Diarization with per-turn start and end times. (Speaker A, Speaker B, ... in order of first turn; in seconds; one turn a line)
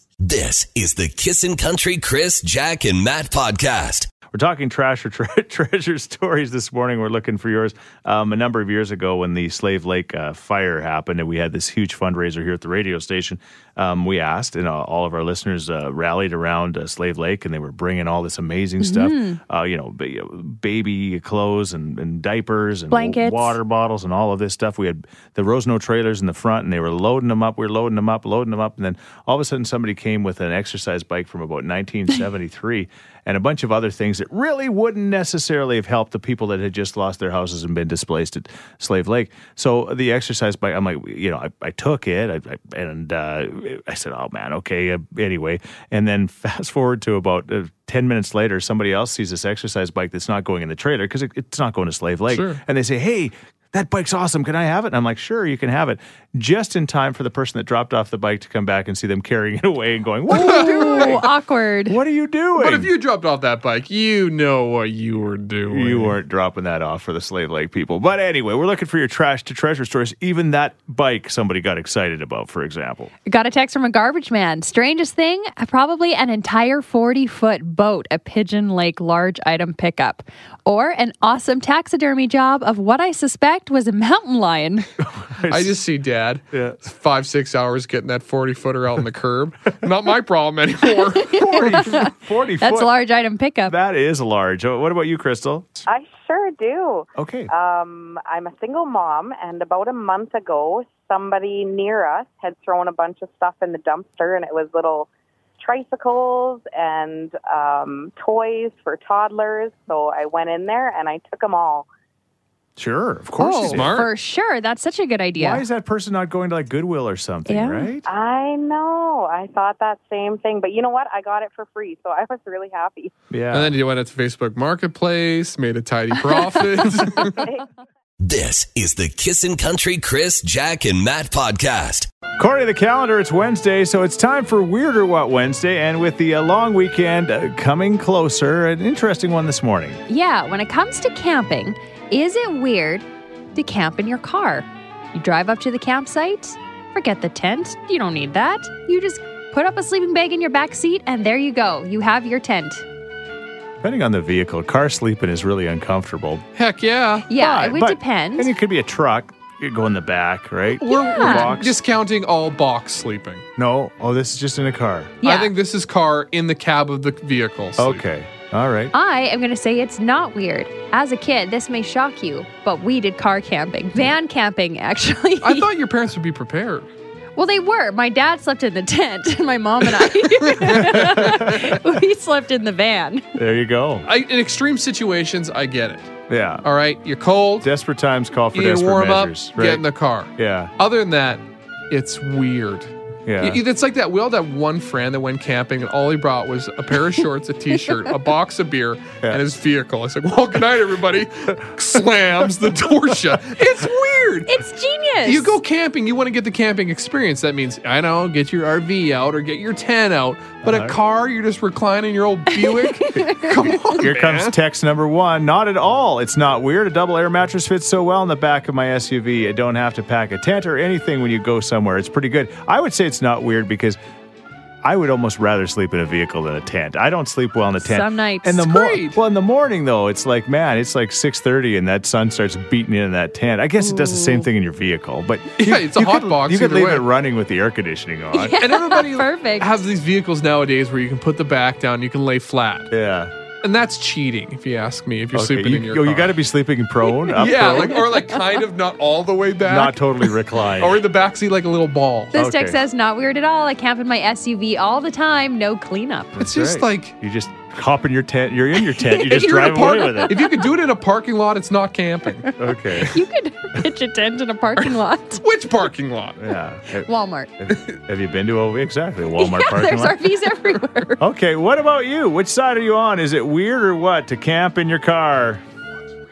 Speaker A: 0.2-4.1
Speaker B: 4.3-61.3
Speaker C: 18.8-19.4
Speaker C: 22.9-23.6
Speaker D: 52.3-52.6
Speaker C: 60.3-62.0
Speaker D: 60.3-61.2
Speaker B: 61.9-62.9
Speaker D: 62.6-66.2
Speaker B: 65.7-73.1
Speaker C: 73.3-84.9
Speaker B: 85.2-85.8
Speaker D: 85.5-92.0
Speaker B: 86.5-86.8
Speaker C: 91.3-93.8
Speaker B: 91.4-92.9
Speaker B: 93.7-95.8
Speaker E: 95.9-111.9
Speaker B: 97.2-97.5
Speaker B: 112.8-114.0
Speaker C: 113.4-115.6
Speaker D: 113.7-114.1
Speaker B: 115.4-118.1
Speaker C: 117.5-117.9
Speaker E: 118.1-123.1
Speaker B: 123.3-123.7
Speaker D: 123.5-127.4
Speaker A: 128.2-132.1
Speaker B: 132.4-140.0
Speaker C: 140.1-152.8
Speaker B: 153.8-156.4
Speaker D: 156.6-157.3
Speaker C: 157.3-158.5
Speaker B: 157.4-161.8
Speaker C: 160.8-161.5
Speaker D: 160.9-163.4
Speaker B: 163.6-165.2
Speaker C: 165.2-165.5
Speaker D: 165.2-168.0
Speaker B: 167.8-168.9
Speaker C: 168.9-175.7
Speaker D: 175.4-176.9
Speaker C: 177.4-183.3
Speaker D: 180.2-181.3
Speaker B: 180.8-181.7
Speaker B: 183.4-184.1
Speaker D: 184.1-187.7
Speaker B: 186.3-186.7
Speaker B: 187.6-189.8
Speaker D: 188.5-204.6
Speaker B: 190.4-190.7
Speaker B: 193.3-193.6
Speaker C: 204.5-205.6
Speaker D: 205.2-214.6
Speaker B: 210.7-211.0
Speaker C: 212.6-213.5
Speaker B: 214.0-224.0
Speaker B: 224.8-238.6
Speaker C: 227.8-228.7
Speaker D: 228.7-229.2
Speaker C: 233.8-234.5
Speaker D: 235.6-237.1
Speaker C: 238.3-239.7
Speaker D: 238.6-242.9
Speaker B: 242.9-243.3
Speaker D: 243.6-246.4
Speaker B: 245.3-248.1
Speaker D: 247.3-252.3
Speaker B: 249.7-251.0
Speaker C: 252.3-256.4
Speaker B: 252.3-252.8
Speaker B: 256.4-260.5
Speaker D: 256.4-257.1
Speaker C: 259.0-260.7
Speaker D: 259.3-262.5
Speaker B: 262.6-263.2
Speaker C: 263.0-265.4
Speaker D: 265.4-266.4
Speaker B: 266.4-267.1
Speaker C: 267.0-267.5
Speaker B: 267.6-270.2
Speaker C: 269.4-271.2
Speaker B: 271.2-275.6